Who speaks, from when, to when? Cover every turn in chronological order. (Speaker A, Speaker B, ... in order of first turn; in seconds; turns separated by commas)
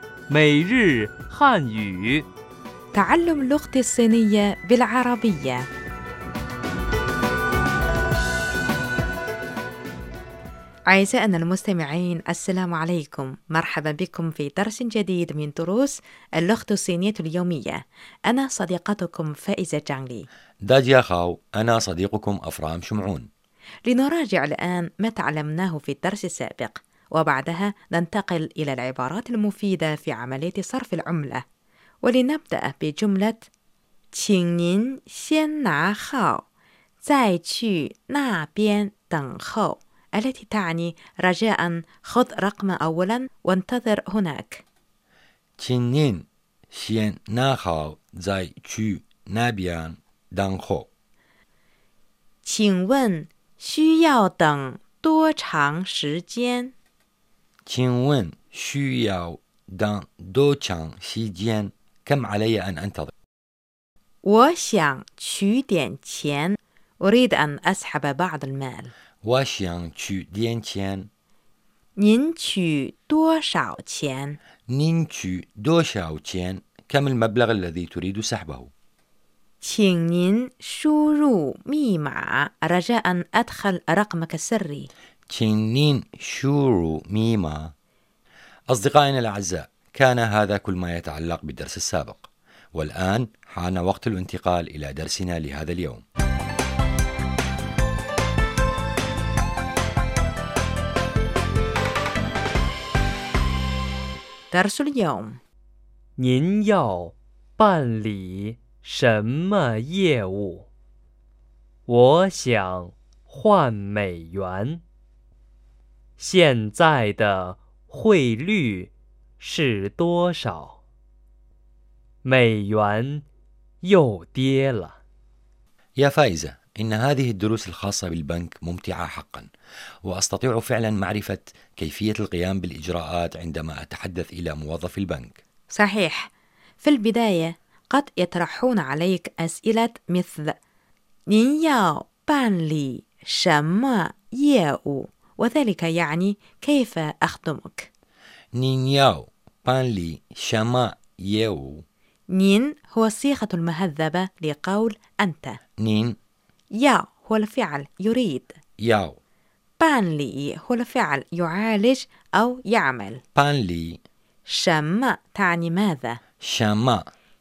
Speaker A: 0.3-2.3, Speaker B: 2.9-5.7, Speaker B: 10.9-20.3, Speaker C: 20.6-23.3, Speaker B: 23.9-31.4, Speaker B: 32.0-33.5, Speaker B: 34.1-36.5, Speaker B: 37.0-44.6, Speaker C: 45.6-50.9, Speaker B: 52.4-56.7, Speaker C: 57.7-63.1, Speaker B: 64.2-68.9, Speaker C: 69.2-71.1, Speaker B: 72.0-74.4, Speaker C: 74.7-78.7, Speaker B: 79.6-84.9, Speaker C: 85.3-87.7, Speaker C: 88.7-96.0, Speaker B: 104.5-105.4, Speaker A: 106.2-110.7, Speaker A: 111.9-114.8, Speaker A: 116.2-120.8, Speaker A: 122.2-123.2, Speaker A: 123.8-125.0, Speaker C: 126.0-129.5, Speaker C: 130.1-135.4, Speaker B: 135.7-136.3, Speaker B: 136.8-140.6, Speaker B: 141.3-147.9, Speaker C: 148.6-151.8, Speaker B: 152.3-155.6, Speaker C: 155.8-156.2, Speaker B: 156.7-158.6, Speaker C: 158.8-159.2, Speaker B: 159.8-163.2, Speaker C: 163.3-164.0, Speaker B: 164.5-166.2, Speaker C: 166.4-167.1